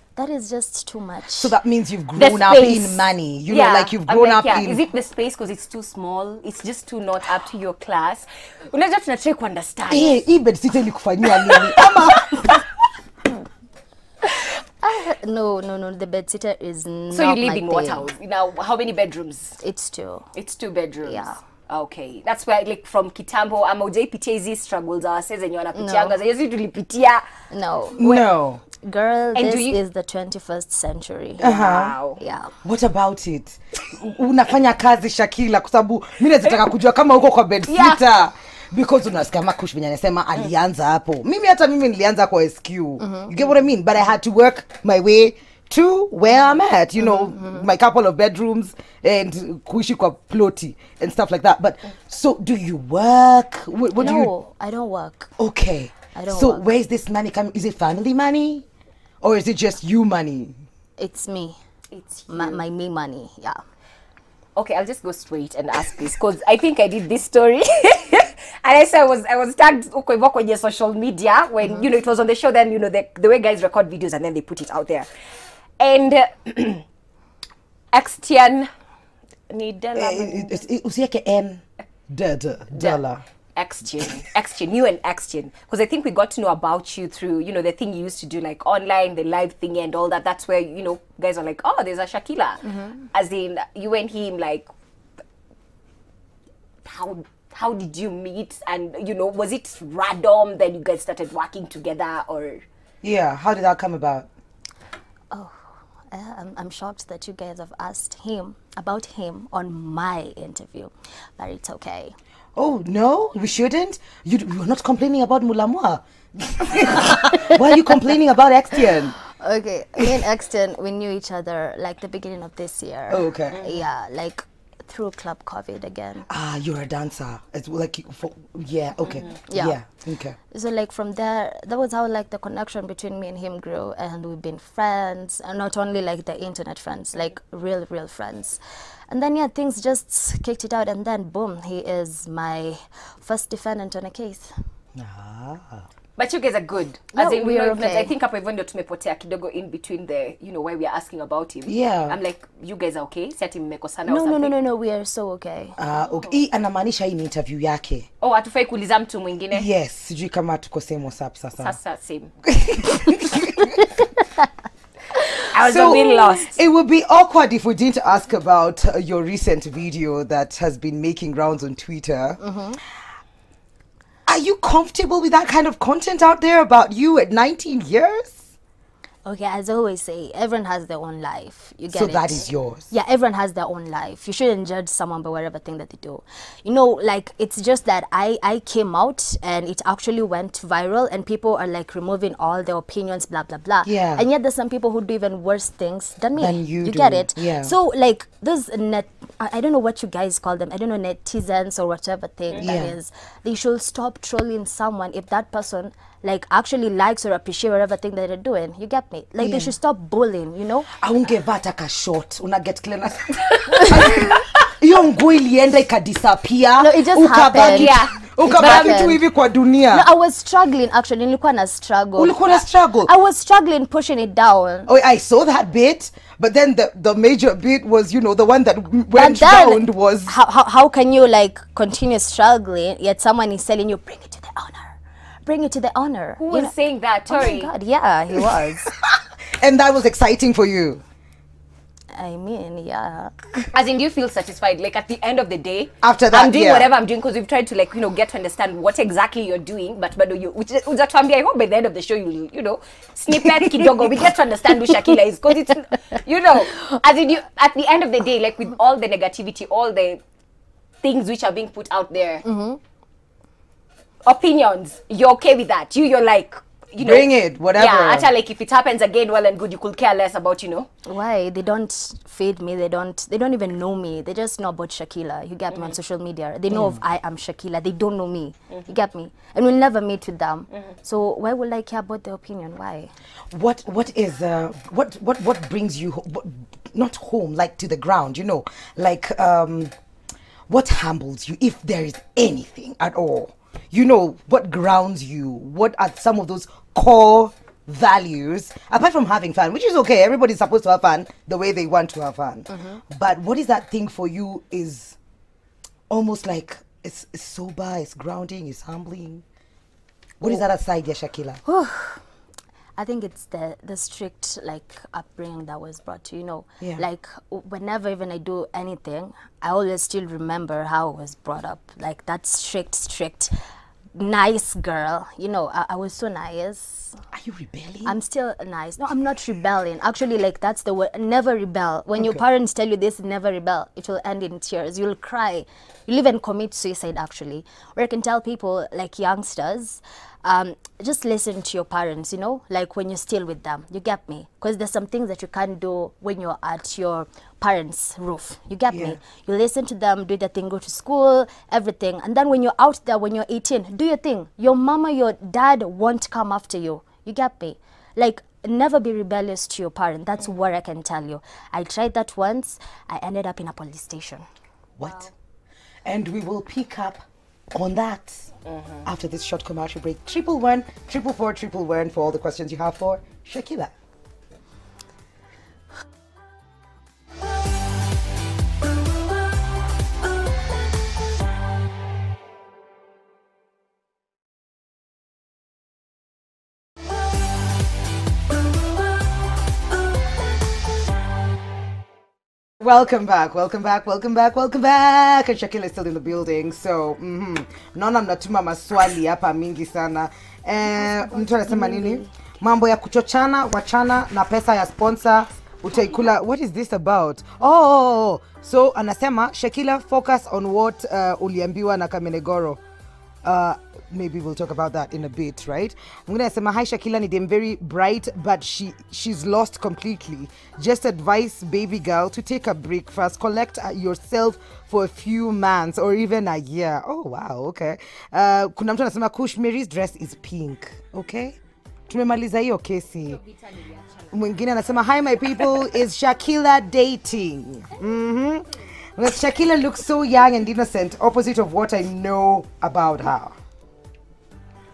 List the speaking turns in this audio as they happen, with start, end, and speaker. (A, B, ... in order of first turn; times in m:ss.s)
0:00.2-0:01.5 A
0:01.3-0:04.8 B
0:02.2-0:10.2 C
0:09.9-0:12.6 B
0:11.2-0:12.6 C
0:14.8-0:18.1 A
0:17.1-0:19.6 C
0:19.6-0:20.3 A
0:20.3-0:27.2 C
0:21.0-0:21.4 A
0:25.7-0:26.2 A
0:27.5-0:31.5 A
0:28.0-0:28.7 B
0:29.3-0:29.8 C
0:31.4-0:32.0 B
0:31.4-0:32.2 C
0:32.1-0:32.5 A
0:32.6-0:54.3 B
0:37.7-0:38.0 C
0:43.0-0:43.3 A
0:47.2-0:47.6 A
0:54.0-0:55.3 A
0:55.4-0:58.6 B
0:56.1-0:56.7 A
0:59.2-1:00.6 B
1:01.0-1:01.6 A
1:01.9-1:02.6 C
1:02.3-1:03.6 A
1:04.6-1:15.1 C
1:15.8-1:16.8 C
1:17.9-1:18.7 C
1:19.5-1:20.6 C
1:19.9-1:23.2 B
1:22.7-1:23.0 C
1:23.5-1:34.7 C
1:32.7-1:32.9 A
1:36.8-1:42.6 C
1:43.0-1:44.3 B
1:45.3-1:52.1 A
1:52.6-1:59.2 B
1:59.3-2:06.2 A
2:03.1-2:03.6 B
2:06.3-2:10.4 B
2:09.5-2:09.8 A
2:10.4-2:24.5 A
2:24.9-2:25.8 B
2:26.2-2:34.5 C
2:27.1-2:28.1 A
2:31.7-2:32.2 B
2:34.1-2:35.8 A
2:35.8-2:38.1 B
2:36.0-2:36.3 C
2:38.2-2:39.7 C
2:39.5-2:41.8 B
2:41.6-2:42.3 C
2:42.4-2:43.7 B
2:43.5-2:43.8 A
2:45.5-2:46.6 C
2:45.6-2:52.4 B
2:52.4-2:52.8 A
2:54.3-2:58.4 B
2:59.2-3:30.9 A
3:01.9-3:02.9 B
3:13.8-3:14.2 B
3:16.4-3:17.7 B
3:22.6-3:22.9 B
3:29.4-3:29.7 B
3:30.9-3:40.1 B
3:36.8-3:39.2 A
3:37.6-3:39.0 C
3:39.9-3:44.9 A
3:42.2-3:43.1 B
3:44.9-3:50.4 B
3:49.1-3:56.7 A
3:56.4-3:57.7 C
3:57.3-3:58.9 A
3:58.3-4:01.0 B
4:02.1-4:03.4 A
4:03.7-4:20.2 C
4:06.0-4:06.9 B
4:21.0-4:22.4 C
4:22.4-4:22.8 A
4:24.2-4:30.9 C
4:27.0-4:28.3 B
4:31.0-4:43.1 A
4:36.7-4:37.0 B
4:43.5-4:49.9 B
4:50.7-5:05.2 B
5:06.1-5:09.4 B
5:10.4-5:11.6 B
5:11.6-5:12.2 A
5:13.0-5:23.5 A
5:16.8-5:17.0 B
5:24.1-5:27.2 A
5:27.3-5:28.2 B
5:28.0-6:04.4 A
5:48.9-5:49.2 B
6:05.0-6:05.3 B
6:06.0-6:08.5 B
6:09.0-6:13.9 B
6:32.8-6:52.8 B
6:40.8-6:42.5 A
6:53.4-7:11.6 B
7:12.1-7:13.4 B
7:13.2-7:14.3 C
7:14.3-7:23.6 B